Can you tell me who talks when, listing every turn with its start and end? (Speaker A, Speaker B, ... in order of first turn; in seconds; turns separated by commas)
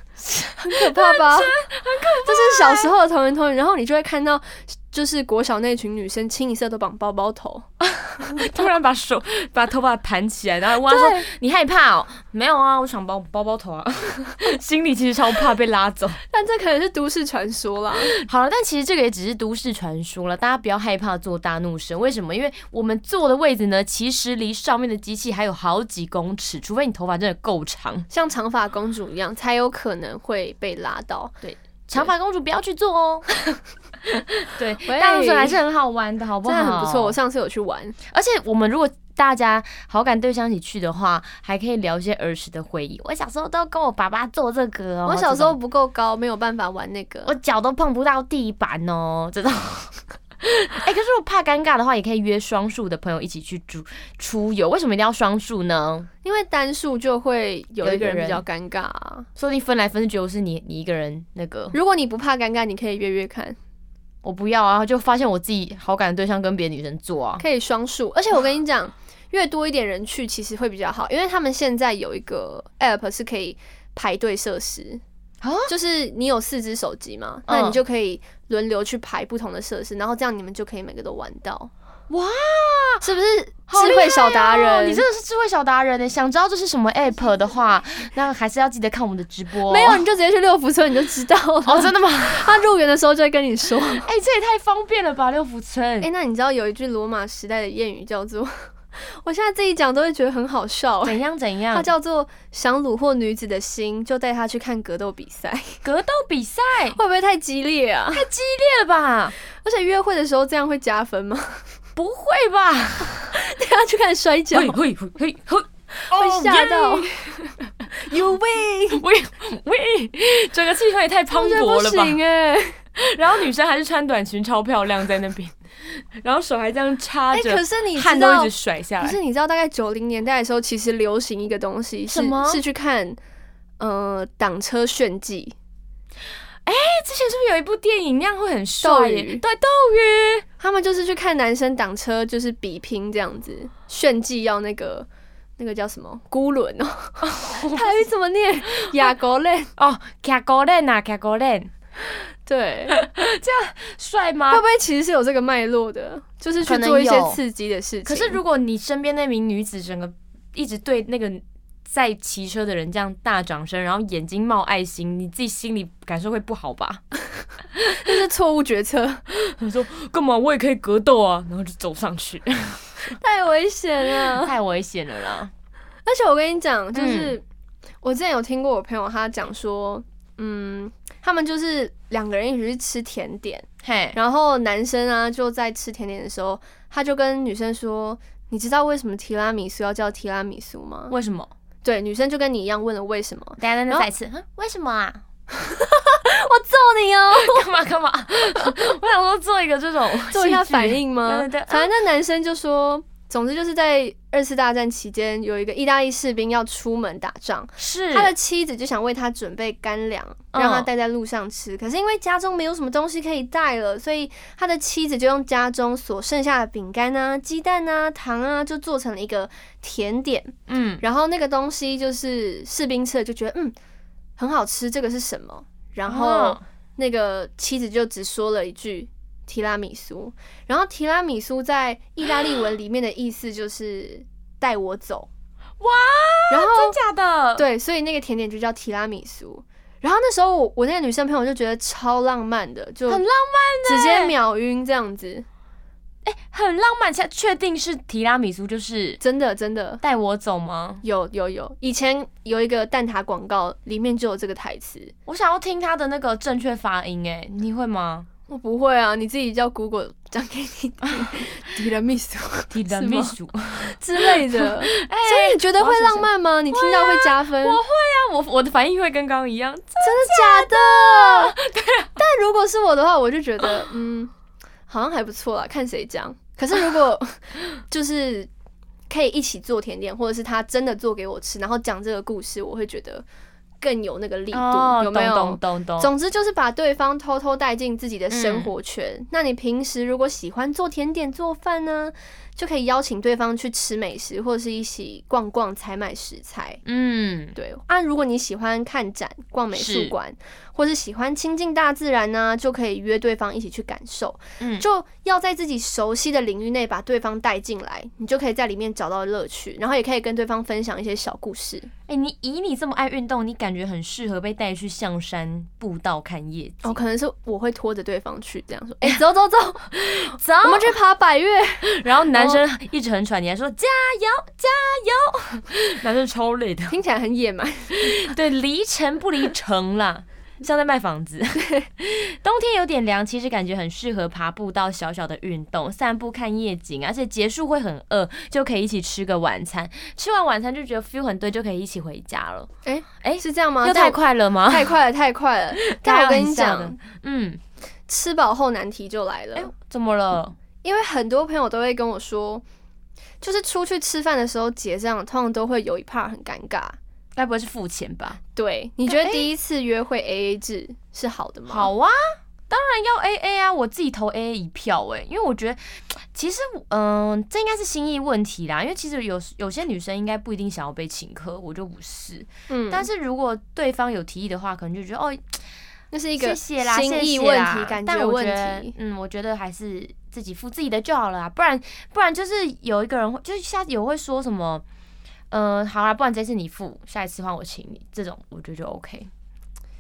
Speaker A: 0.4-2.9, Speaker B: 0.4-1.5, Speaker B: 2.2-7.7, Speaker A: 7.8-16.2, Speaker B: 10.8-11.3, Speaker B: 16.3-18.1, Speaker A: 18.1-28.1, Speaker B: 28.1-31.4, Speaker A: 31.4-33.3, Speaker A: 34.2-37.2, Speaker B: 34.8-35.6, Speaker B: 36.4-38.0, Speaker A: 38.0-45.6, Speaker B: 45.0-47.3, Speaker A: 47.2-56.1, Speaker B: 56.2-59.3, Speaker A: 57.8-58.4, Speaker A: 59.4-61.7, Speaker B: 61.7-63.6, Speaker A: 64.2-67.4, Speaker B: 67.4-75.0, Speaker A: 75.4-75.7, Speaker B: 75.7-81.7, Speaker A: 77.5-77.8, Speaker A: 82.1-83.0, Speaker B: 83.0-85.0, Speaker A: 83.7-90.0, Speaker B: 89.7-94.1, Speaker A: 91.7-92.6, Speaker A: 94.0-96.1, Speaker B: 96.0-101.2, Speaker A: 101.0-101.9, Speaker B: 101.7-105.8, Speaker A: 105.8-107.0, Speaker B: 107.0-108.3, Speaker A: 108.1-109.3, Speaker B: 109.6-111.6, Speaker A: 112.0-113.3, Speaker B: 113.3-114.8, Speaker A: 114.5-117.7, Speaker B: 116.1-117.1, Speaker B: 117.9-119.0, Speaker A: 118.9-122.2, Speaker B: 121.3-122.8, Speaker A: 123.0-129.2, Speaker B: 127.3-133.2, Speaker A: 132.1-132.6, Speaker B: 133.8-135.5, Speaker A: 136.6-140.4, Speaker B: 138.8-139.4, Speaker B: 140.6-149.7, Speaker A: 147.2-148.1, Speaker A: 149.8-151.7, Speaker B: 152.4-152.9, Speaker A: 152.9-154.6, Speaker B: 154.5-158.4, Speaker A: 156.6-157.4, Speaker A: 158.1-167.0, Speaker B: 167.8-169.2, Speaker A: 169.3-173.2, Speaker B: 173.1-174.6, Speaker A: 174.2-175.5, Speaker B: 176.1-177.4, Speaker A: 176.9-177.3, Speaker B: 178.0-191.1, Speaker A: 183.8-184.2, Speaker A: 191.1-191.5, Speaker B: 191.8-194.1, Speaker A: 193.6-195.2, Speaker B: 195.5-197.7, Speaker A: 197.3-201.9, Speaker B: 200.3-223.7, Speaker A: 207.8-208.3, Speaker A: 210.5-210.9, Speaker A: 220.7-221.0, Speaker B: 224.4-235.3, Speaker A: 226.1-226.6, Speaker A: 235.8-237.6, Speaker B: 236.5-236.9, Speaker B: 237.6-243.2, Speaker A: 243.1-244.3, Speaker B: 243.8-245.4, Speaker A: 246.2-249.2, Speaker B: 249.2-250.0, Speaker A: 250.0-251.0, Speaker B: 251.0-255.1, Speaker A: 255.3-258.3, Speaker B: 258.5-267.8, Speaker A: 262.7-272.2, Speaker B: 270.0-271.6, Speaker B: 272.2-274.3, Speaker B: 274.9-278.5, Speaker B: 279.1-283.2, Speaker B: 283.8-296.8, Speaker A: 284.5-286.1, Speaker A: 288.3-288.7, Speaker A: 296.8-297.6, Speaker B: 297.5-311.9, Speaker A: 299.7-300.1, Speaker A: 304.6-304.8, Speaker A: 312.1-317.0, Speaker B: 316.8-322.6, Speaker A: 320.0-320.9, Speaker A: 321.9-326.9, Speaker B: 326.9-328.3, Speaker A: 328.0-342.7, Speaker B: 342.8-347.0, Speaker A: 343.2-344.9, Speaker A: 345.8-347.6, Speaker B: 348.1-349.7, Speaker A: 349.5-350.6, Speaker B: 350.8-352.6, Speaker B: 353.4-357.0, Speaker A: 357.4-358.4, Speaker B: 358.5-361.9, Speaker A: 359.1-359.4, Speaker A: 361.7-375.6, Speaker B: 372.7-373.1, Speaker B: 376.1-378.9, Speaker A: 376.4-384.8, Speaker A: 385.5-389.3